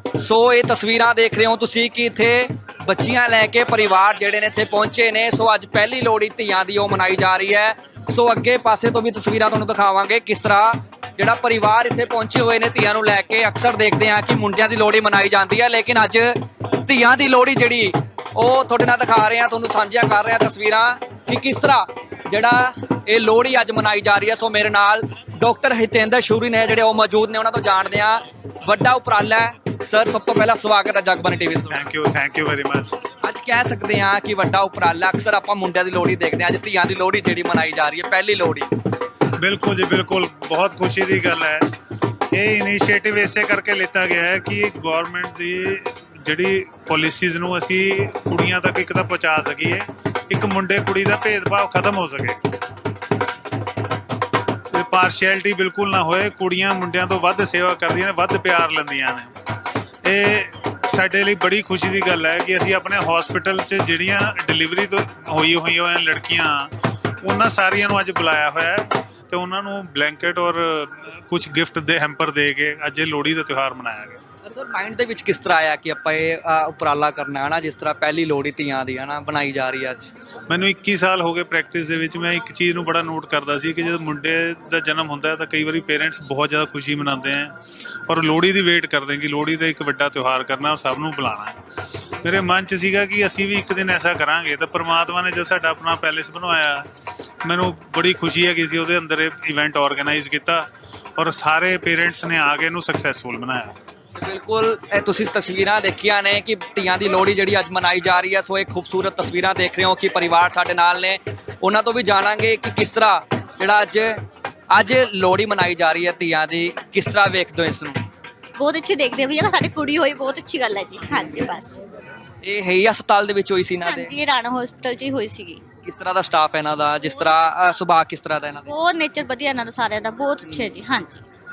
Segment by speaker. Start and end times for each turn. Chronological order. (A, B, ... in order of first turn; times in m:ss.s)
0:00.2-0:31.9 A
0:31.7-0:33.0 B
0:33.2-0:38.7 A
0:39.4-0:41.6 B
0:42.3-0:52.4 B
0:54.7-0:59.3 B
1:00.0-1:06.7 B
1:07.2-1:14.2 B
1:14.4-1:20.1 A
1:20.5-1:27.5 B
1:28.1-1:31.6 B
1:32.2-1:36.9 B
1:37.4-1:40.7 B
1:41.2-1:43.8 B
1:44.2-1:54.2 A
1:54.7-1:58.0 A
1:58.6-2:01.8 C
2:02.4-2:04.2 A
2:03.8-2:05.6 C
2:05.8-2:08.8 A
2:08.7-2:11.2 C
2:10.4-2:10.8 A